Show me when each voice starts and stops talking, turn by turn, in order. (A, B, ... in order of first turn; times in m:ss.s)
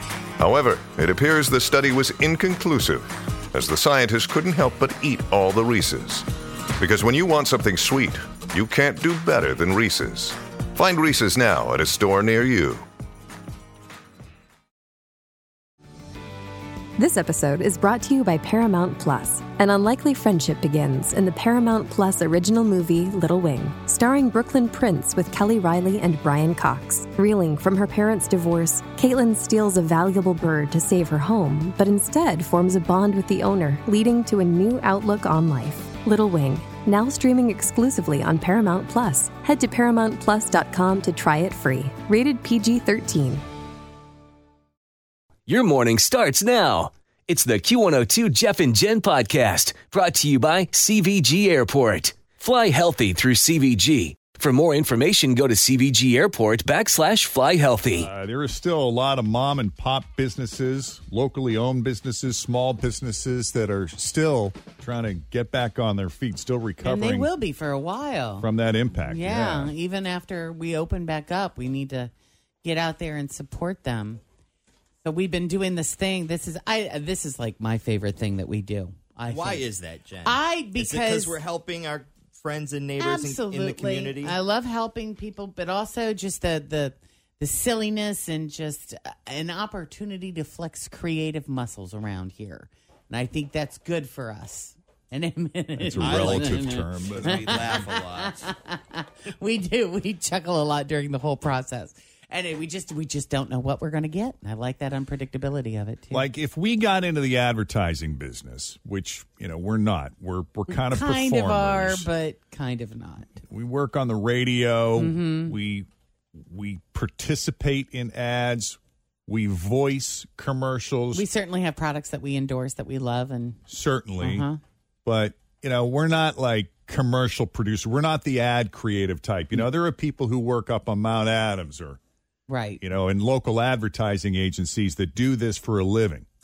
0:00.4-0:06.3 A
0:06.8-0:12.8 A
0:17.0-0:43.4 B
0:45.5-0:58.1 C
0:58.0-1:07.3 D
1:06.8-1:12.1 E
1:08.4-1:09.7 D
1:12.6-1:14.2 E
1:15.0-1:19.7 E
1:19.3-1:24.4 F
1:20.2-1:21.4 E
1:23.0-1:46.2 E
1:35.8-1:37.7 D
1:36.0-1:36.5 F
1:37.1-1:38.5 F
1:46.1-1:52.1 D
1:50.7-1:53.3 E
1:53.5-2:01.2 D
1:55.0-1:55.6 E
2:01.1-2:03.6 E
2:03.7-2:04.5 D
2:04.2-2:04.6 E
2:05.0-2:12.0 D
2:12.5-2:12.8 E
2:12.8-2:16.3 D